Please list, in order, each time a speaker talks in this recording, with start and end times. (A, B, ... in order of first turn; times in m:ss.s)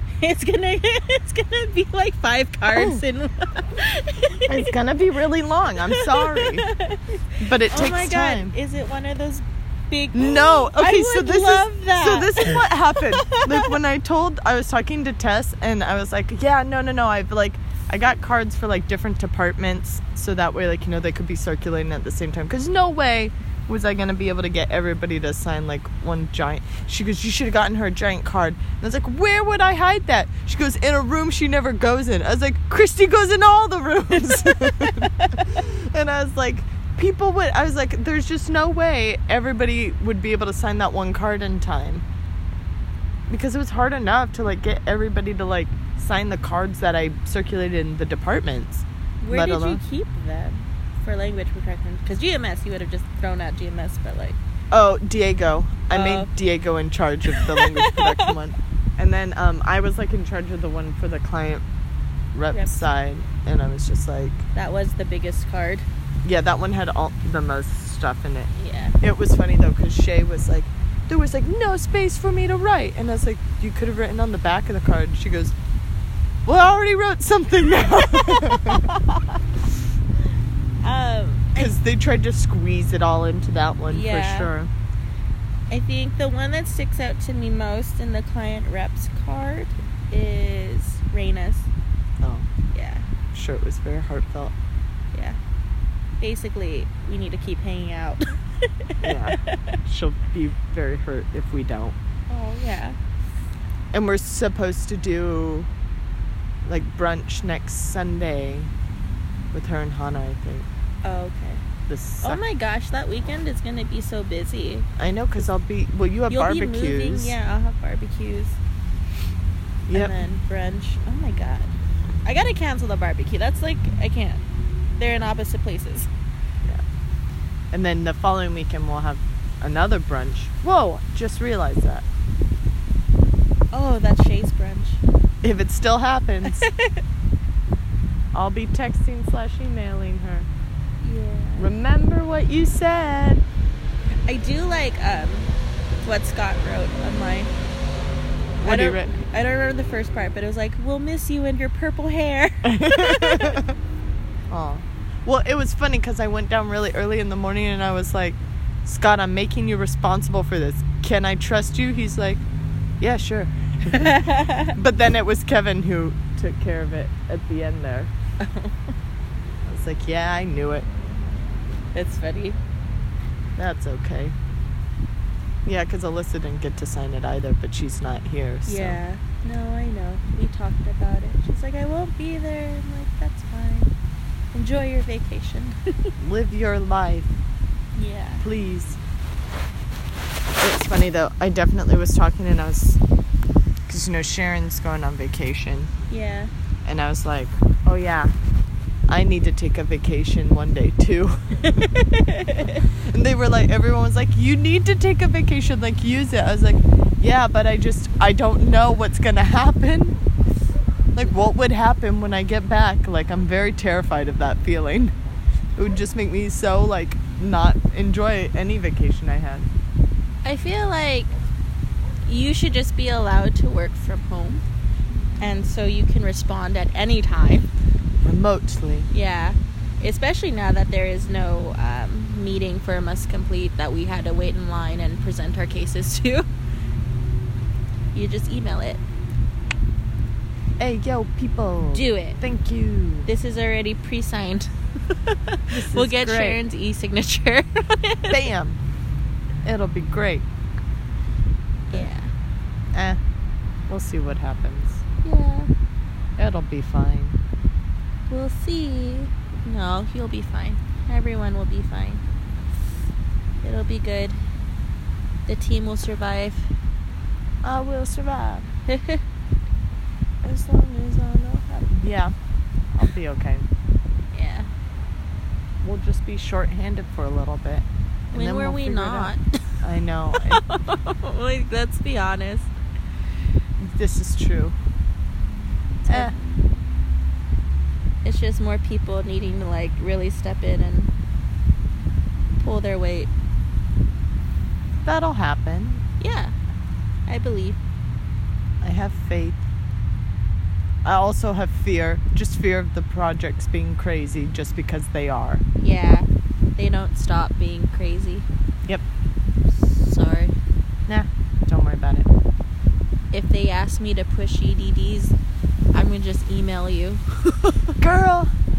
0:00.2-0:04.7 A
0:02.7-0:03.0 B
0:04.5-0:06.7 B
0:05.9-0:13.8 A
0:07.4-0:08.6 B
0:10.1-0:42.0 B
0:34.7-0:35.4 A
0:43.3-0:49.8 B
0:49.2-0:54.4 A
0:54.7-1:01.6 B
0:55.9-0:56.3 A
0:57.3-0:58.3 A
1:02.3-1:04.4 B
1:02.5-1:02.8 A
1:04.6-1:05.9 A
1:06.2-1:15.6 B
1:08.6-1:09.0 A
1:16.5-1:18.9 B
1:18.4-1:19.4 A
1:20.8-1:21.7 A
1:21.6-1:24.7 B
1:23.9-1:24.5 A
1:25.7-1:31.7 A
1:32.2-1:32.5 B
1:32.7-1:33.0 A
1:33.3-1:34.5 B
1:36.2-1:39.8 A
1:39.0-1:42.0 B
1:42.3-1:43.0 A
1:43.9-1:45.7 B
1:46.7-1:48.7 B
1:49.5-1:50.7 B
1:51.0-1:51.6 A
1:51.9-1:52.4 B
1:52.2-1:54.9 A
1:55.0-1:57.4 B
1:56.3-1:58.6 A
1:59.9-2:00.1 B
1:59.9-2:01.7 A
2:02.2-2:04.4 A
2:05.0-2:06.1 A
2:07.7-2:12.0 B
2:13.7-2:15.0 A
2:15.4-2:16.7 B
2:16.4-2:17.0 A
2:18.3-2:20.5 B
2:21.0-2:21.7 A
2:21.6-2:23.4 B
2:24.3-2:25.5 A
2:26.0-2:27.5 A
2:28.6-2:29.1 B
2:28.6-2:33.6 A
2:32.6-2:33.7 B
2:34.5-2:42.4 B
2:43.0-2:44.2 B
2:43.9-2:44.8 A
2:44.7-2:48.1 B
2:48.4-2:48.8 A
2:49.7-2:50.9 B
2:51.9-2:52.6 A
2:53.6-2:54.4 B
2:55.6-2:59.0 B
2:58.7-3:03.9 A
3:04.5-3:06.1 A
3:06.2-3:07.3 B
3:08.0-3:08.5 A
3:08.4-3:09.0 B
3:10.6-3:13.0 B
3:13.9-3:15.9 B
3:16.1-3:16.5 A
3:16.8-3:18.3 B
3:19.1-3:21.8 B
3:21.6-3:22.8 A
3:23.1-3:30.2 B
3:31.1-3:35.1 B
3:35.8-3:39.7 B
3:40.4-3:41.3 A
3:42.3-3:44.6 A
3:45.4-3:47.7 A
3:48.2-3:49.1 B
3:49.1-3:56.5 A
3:58.2-3:59.0 A
4:00.8-4:03.3 B
4:01.9-4:02.4 A
4:03.3-4:08.4 A
4:05.7-4:06.6 B
4:08.3-4:08.8 B
4:09.6-4:10.5 B
4:11.9-4:12.3 A
4:12.9-4:13.2 B
4:13.9-4:15.0 B
4:15.2-4:15.7 A
4:16.4-4:17.4 B
4:18.3-4:22.2 A
4:23.6-4:24.4 A
4:25.5-4:26.7 A
4:27.6-4:28.7 B
4:28.9-4:29.2 A
4:30.4-4:32.3 B
4:33.0-4:33.6 B
4:34.3-4:34.7 A
4:35.8-4:39.3 B
4:38.3-4:39.4 A
4:39.8-4:40.6 B
4:40.3-4:42.7 A
4:43.8-4:44.8 B
4:46.1-4:46.3 B
4:46.1-4:46.3 A
4:48.2-4:51.1 A
4:52.6-4:53.3 A
4:55.0-4:56.0 B
4:56.2-4:56.5 A
4:57.3-4:57.8 A
4:58.8-4:59.6 B
5:01.0-5:05.6 B
5:05.8-5:08.5 A
5:09.7-5:10.5 A
5:11.1-5:12.3 B
5:13.3-5:15.4 A
5:15.9-5:18.0 A
5:18.0-5:18.5 B